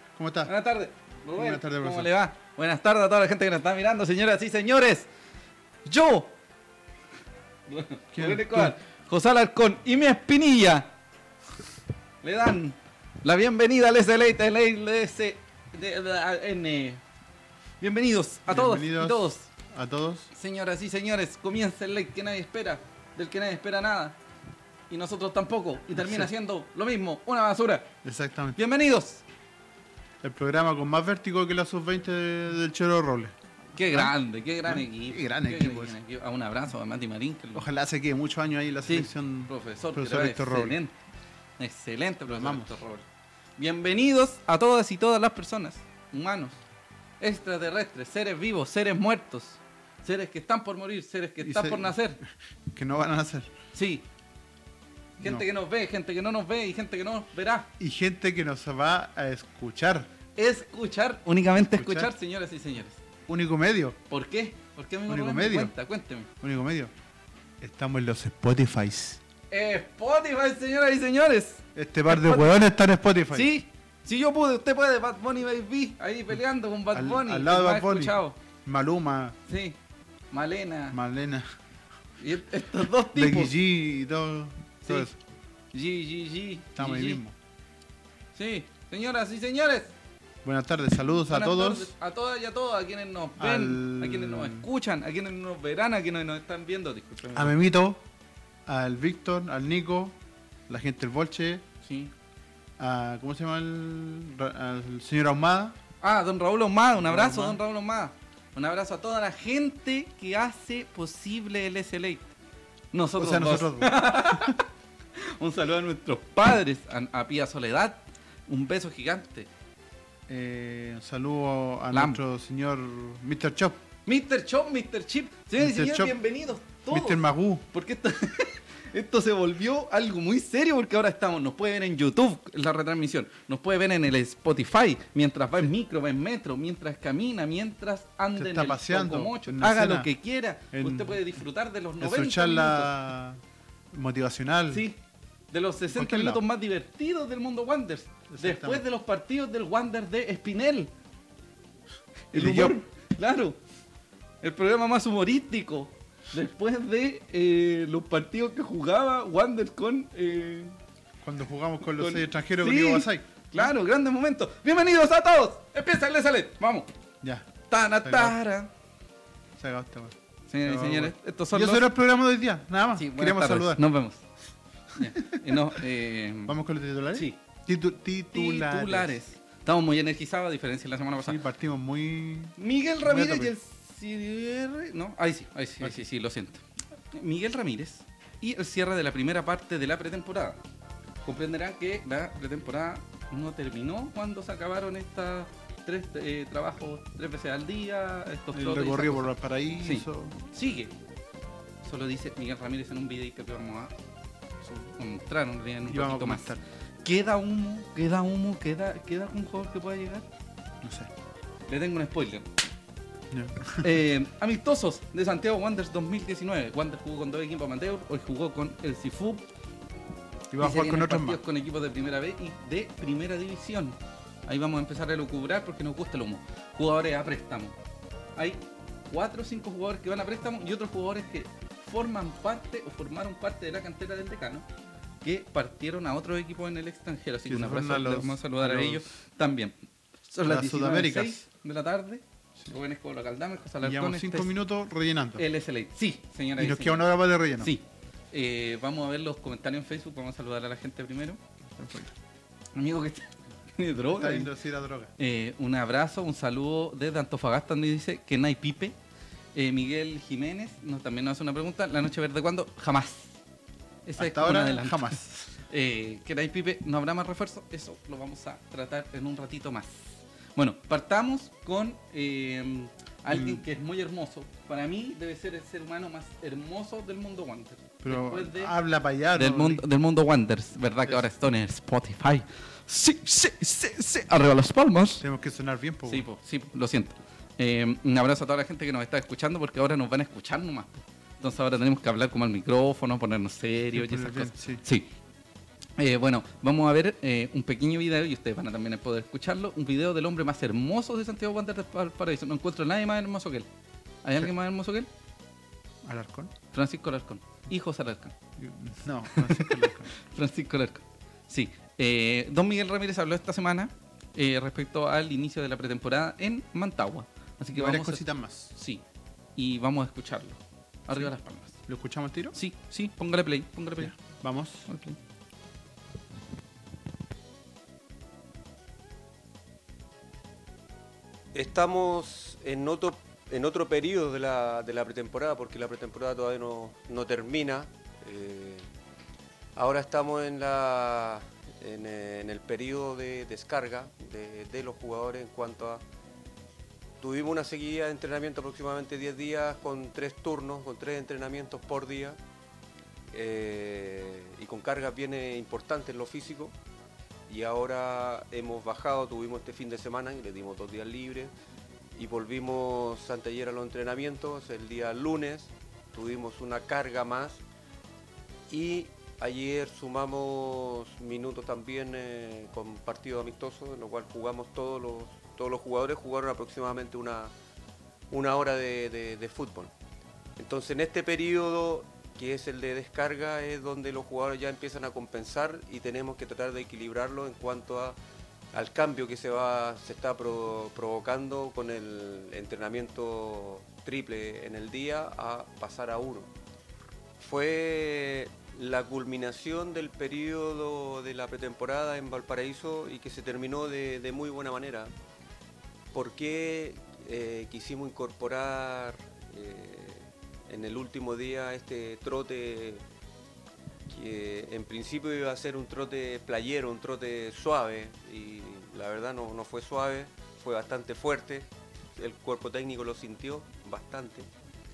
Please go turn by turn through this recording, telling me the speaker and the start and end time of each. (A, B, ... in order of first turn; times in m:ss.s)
0:00.1-0:00.5 A
0:00.4-0:05.1 B
0:01.3-0:02.1 A
0:05.8-0:06.3 B
0:07.7-0:10.9 B
0:08.1-0:08.7 A
0:12.2-0:17.0 B
0:17.8-0:19.5 B
0:18.5-0:20.3 A
0:20.3-0:24.2 B
0:24.9-0:27.9 B
0:26.0-0:26.3 A
0:28.0-0:28.6 A
0:28.6-0:29.2 B
0:30.2-0:36.0 A
0:33.7-0:37.7 B
0:37.5-0:40.8 A
0:38.9-0:40.9 B
0:41.6-0:43.0 B
0:42.2-0:42.8 A
0:43.6-0:46.6 B
0:47.2-0:52.2 B
0:51.4-0:52.0 A
0:52.7-0:53.5 A
0:53.7-0:54.0 B
0:55.2-0:57.7 B
0:57.8-1:00.1 A
1:00.4-1:03.0 B
1:01.6-1:02.1 A
1:03.3-1:04.0 A
1:04.1-1:06.3 B
1:05.1-1:05.7 A
1:06.4-1:06.9 A
1:07.6-1:09.2 A
1:09.5-1:12.6 B
1:11.7-1:13.5 A
1:13.3-1:18.4 B
1:16.9-1:19.4 A
1:19.5-1:19.8 B
1:20.3-1:21.0 B
1:20.9-1:21.5 A
1:22.2-1:23.5 B
1:23.1-1:25.2 A
1:25.7-1:27.2 B
1:26.8-1:27.3 A
1:28.3-1:29.9 B
1:30.4-1:31.9 A
1:31.3-1:37.6 B
1:33.4-1:34.7 A
1:37.3-1:38.0 A
1:38.7-1:40.2 A
1:40.7-1:41.6 A
1:41.8-1:42.1 B
1:42.8-1:45.8 A
1:46.0-1:52.3 B
1:47.0-1:47.6 A
1:52.9-1:54.7 B
1:53.2-1:54.5 A
1:55.2-1:59.5 B
2:00.3-2:03.8 A
2:01.9-2:02.2 B
2:04.1-2:22.9 B
2:05.6-2:06.2 A
2:06.9-2:07.7 A
2:18.3-2:20.1 A
2:20.7-2:21.2 A
2:22.0-2:23.4 A
2:23.9-2:24.8 A
2:24.7-2:25.0 B
2:25.5-2:30.9 B
2:25.9-2:26.4 A
2:28.3-2:28.8 A
2:32.3-2:32.8 A
2:32.3-2:33.6 B
2:34.4-2:40.8 B
2:41.2-2:43.2 A
2:42.0-2:46.9 B
2:47.2-2:47.5 A
2:47.7-2:48.7 B
2:48.0-2:48.4 A
2:49.6-2:53.8 A
2:50.5-2:51.9 B
2:53.0-2:54.2 B
2:54.9-2:56.5 B
2:55.0-2:55.8 A
2:56.4-2:59.2 A
2:57.1-2:57.4 B
2:58.3-3:01.4 B
3:01.2-3:03.5 A
3:02.6-3:10.6 B
3:11.2-3:20.9 B
3:18.5-3:20.4 A
3:21.8-3:23.9 B
3:24.6-3:30.2 B
3:25.9-3:26.6 A
3:30.8-3:31.1 A
3:31.7-3:32.5 B
3:33.3-3:33.8 A
3:33.8-3:39.5 B
3:40.5-3:41.4 A
3:40.6-3:47.8 B
3:48.4-3:54.6 B
3:55.2-3:59.7 B
3:57.5-3:59.0 A
4:00.3-4:04.5 B
4:00.5-4:01.4 A
4:03.8-4:05.4 A
4:05.4-4:11.4 B
4:06.6-4:07.7 A
4:11.8-4:12.1 A
4:12.7-4:14.5 B
4:14.0-4:15.1 A
4:15.2-4:19.0 B
4:19.5-4:23.4 B
4:24.0-4:25.2 B
4:24.2-4:25.6 A
4:25.7-4:38.8 B
4:33.3-4:33.6 A
4:38.0-4:39.8 A
4:39.4-4:45.2 B
4:45.2-4:46.2 A
4:46.1-4:55.1 B
4:53.9-4:54.8 A
4:56.0-5:03.7 B
5:04.2-5:05.1 B
5:06.0-5:06.5 A
5:06.7-5:08.3 B
5:08.6-5:10.1 A
5:09.3-5:19.0 B
5:17.8-5:18.7 A
5:19.6-5:21.8 B
5:21.9-5:22.6 A
5:22.5-5:24.1 B
5:24.0-5:24.9 A
5:24.9-5:25.2 B
5:31.5-5:38.8 C
5:39.8-5:46.0 C
5:47.2-5:52.4 C
5:53.3-5:56.7 C
5:57.5-6:01.5 C
6:02.1-6:07.6 C
6:08.7-6:17.5 C
6:18.3-6:19.9 C
6:20.6-6:28.2 C
6:28.7-6:36.5 C
6:37.4-6:45.1 C
6:46.1-6:53.0 C
6:54.1-7:04.5 C